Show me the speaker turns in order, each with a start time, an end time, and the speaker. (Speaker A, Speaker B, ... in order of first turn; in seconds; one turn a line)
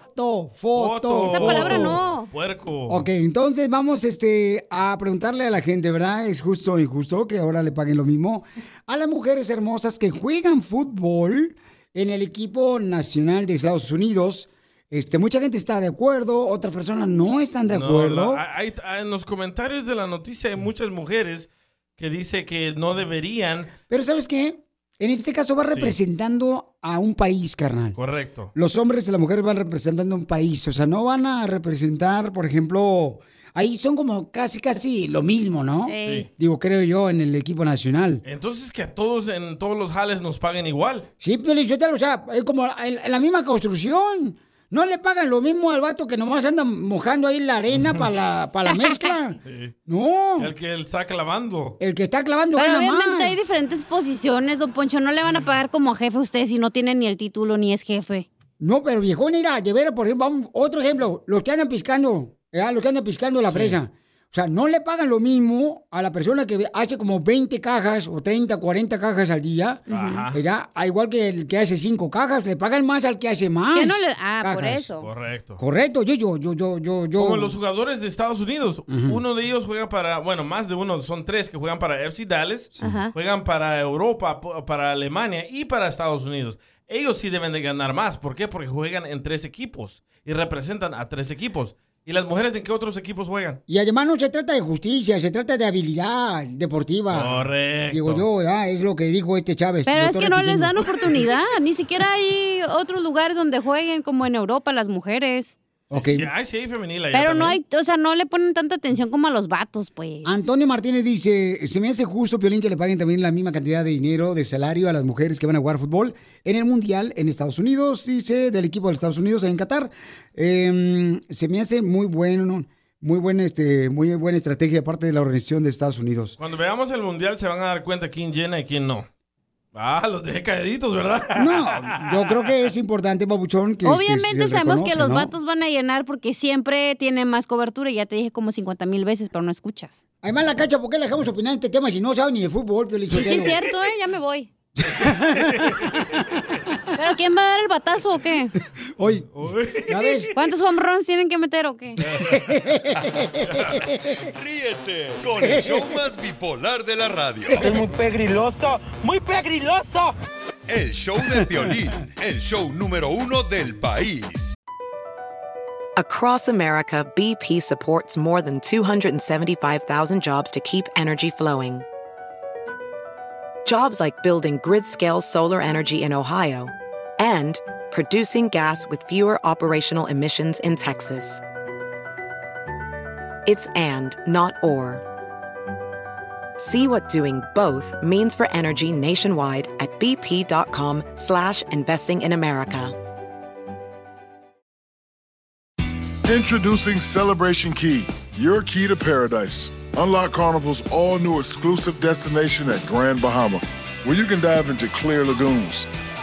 Speaker A: 0.2-2.0
Speaker B: 0.8-3.1
Speaker C: 1.3-2.3
Speaker A: 2.9-18.4
Speaker B: 17.7-23.7
Speaker A: 23.9-28.0
Speaker B: 25.7-26.0
Speaker B: 28.0-28.5
Speaker A: 28.6-38.2
Speaker C: 35.9-36.3
Speaker B: 38.2-41.1
Speaker A: 41.2-50.5
Speaker B: 47.8-48.1
Speaker C: 48.7-49.1
Speaker B: 49.5-49.7
Speaker B: 50.4-51.8
Speaker A: 51.8-53.4
Speaker C: 52.6-58.3
Speaker A: 58.6-74.9
Speaker B: 63.5-63.8
Speaker B: 69.9-70.4
Speaker C: 69.9-70.2
Speaker C: 73.7-75.1
Speaker B: 75.0-75.6
Speaker A: 75.6-77.5
Speaker B: 77.2-93.6
Speaker A: 78.9-79.2
Speaker C: 82.8-83.1
Speaker A: 93.7-101.2
Speaker B: 97.1-98.3
Speaker C: 99.9-105.6
Speaker A: 105.9-106.3
Speaker B: 105.9-107.6
Speaker C: 107.1-110.5
Speaker A: 110.2-126.4
Speaker B: 126.4-129.1
Speaker B: 129.8-132.5
Speaker A: 131.3-135.3
Speaker C: 133.8-140.0
Speaker A: 140.2-143.6
Speaker C: 143.1-144.5
Speaker A: 144.8-145.7
Speaker B: 145.0-146.2
Speaker C: 147.0-148.5
Speaker A: 149.0-149.3
Speaker B: 149.0-150.2
Speaker A: 149.9-150.3
Speaker C: 150.3-152.0
Speaker B: 152.0-152.4
Speaker A: 152.1-154.2
Speaker B: 153.5-153.8
Speaker D: 154.2-157.7
Speaker A: 155.4-155.9
Speaker A: 157.5-157.8
Speaker E: 157.6-160.2
Speaker D: 160.7-164.6
Speaker F: 166.0-171.8
Speaker F: 173.7-181.4
Speaker F: 183.5-185.0
Speaker F: 186.6-192.9
Speaker G: 196.3-205.9